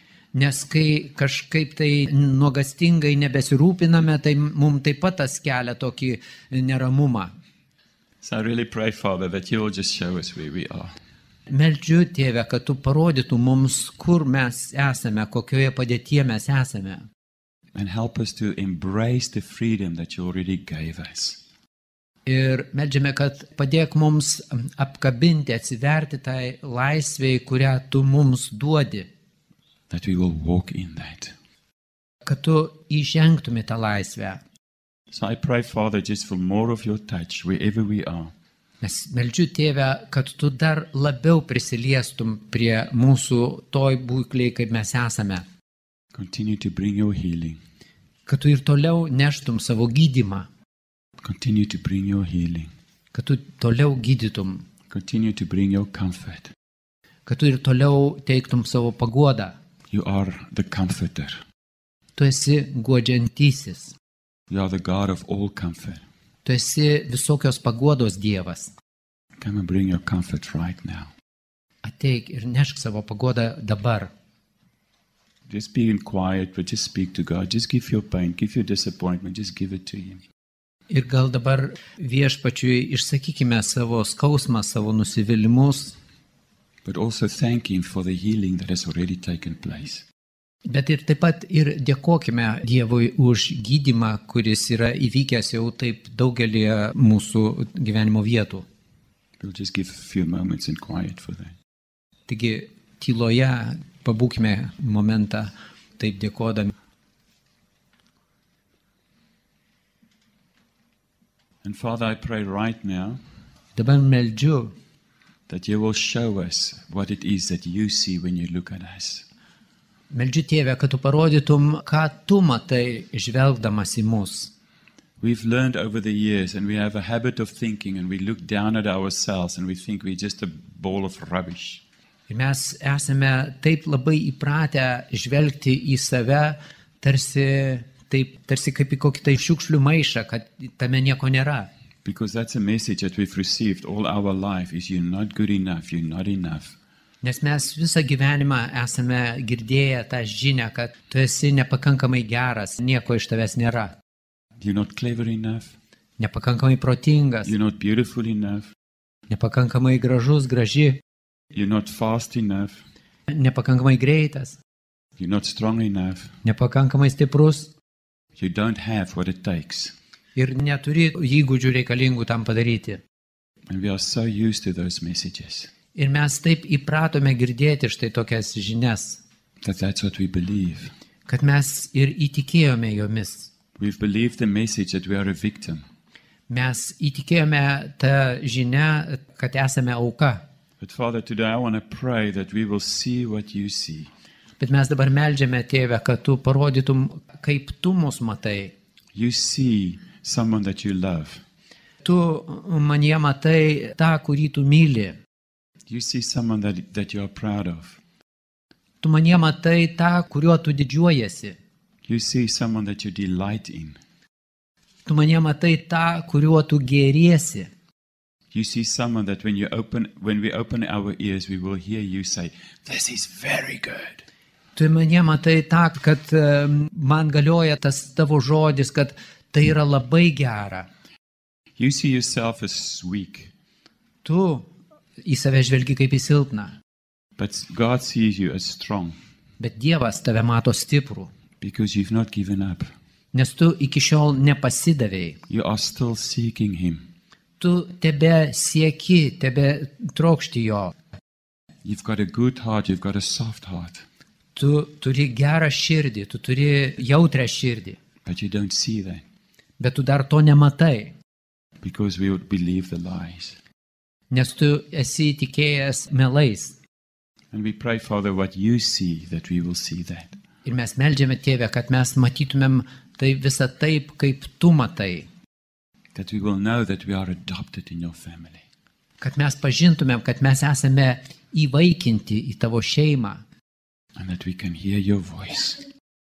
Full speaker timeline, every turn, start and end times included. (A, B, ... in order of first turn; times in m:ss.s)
0:00.3-0:07.3 A
0:08.2-0:10.9 B
0:11.5-0:17.0 A
0:17.7-0:21.4 B
0:22.2-0:29.1 A
0:29.9-0:31.3 B
0:32.2-0:34.4 A
0:35.1-0:38.3 B
0:38.8-0:45.4 A
0:46.1-0:47.6 B
0:48.2-0:50.5 A
0:51.2-0:52.7 B
0:53.1-0:54.6 A
0:54.9-0:56.5 B
0:57.2-0:59.6 A
0:59.9-1:01.4 B
1:02.2-1:03.9 A
1:04.5-1:06.0 B
1:06.4-1:08.7 A
1:09.4-1:11.1 B
1:11.8-1:14.1 A
1:15.5-1:20.2 B
1:20.9-1:26.0 A
1:26.8-1:30.0 B
1:30.6-1:38.6 A
1:39.4-1:41.5 B
1:42.3-1:46.7 A
1:51.6-1:53.2 B
1:53.8-1:54.7 A
1:55.5-1:59.2 B
2:00.1-2:04.5 A
2:05.2-2:11.8 B
2:12.3-2:21.7 A
2:22.0-2:26.8 B
2:27.2-2:33.9 A
2:34.6-2:35.7 B
2:36.2-2:37.5 A
2:37.4-2:38.7 B
2:39.3-2:41.0 A
2:41.5-2:42.8 B
2:43.3-2:44.6 A
2:45.2-2:46.3 B
2:46.4-2:47.7 A
2:48.4-2:49.9 B
2:50.4-2:53.0 A
2:53.7-2:55.7 B
2:55.9-2:59.2 A
2:59.6-3:00.9 B
3:01.3-3:03.5 A
3:03.8-3:05.8 B
3:06.5-3:10.4 A
3:10.8-3:14.1 B
3:14.6-3:18.7 A
3:19.1-3:21.4 B
3:22.0-3:25.2 A
3:25.9-3:28.0 B
3:29.0-3:31.6 A
3:32.0-3:34.0 B
3:35.0-3:37.7 A
3:38.5-3:44.2 B
3:44.8-3:50.9 A
3:51.8-3:53.5 B
3:54.2-3:54.7 A
3:55.2-3:56.7 A
3:57.4-3:59.1 B
3:59.6-4:01.3 A
4:01.6-4:02.9 B
4:03.3-4:05.4 A
4:05.5-4:07.0 B
4:07.6-4:10.9 A
4:11.8-4:14.0 B
4:14.5-4:18.0 A
4:18.2-4:19.2 B
4:19.8-4:21.1 A
4:21.8-4:23.6 B
4:24.3-4:26.8 A
4:27.5-4:30.3 B
4:30.6-4:35.3 A
4:36.1-4:38.6 B
4:39.2-4:43.4 A
4:44.2-4:45.8 B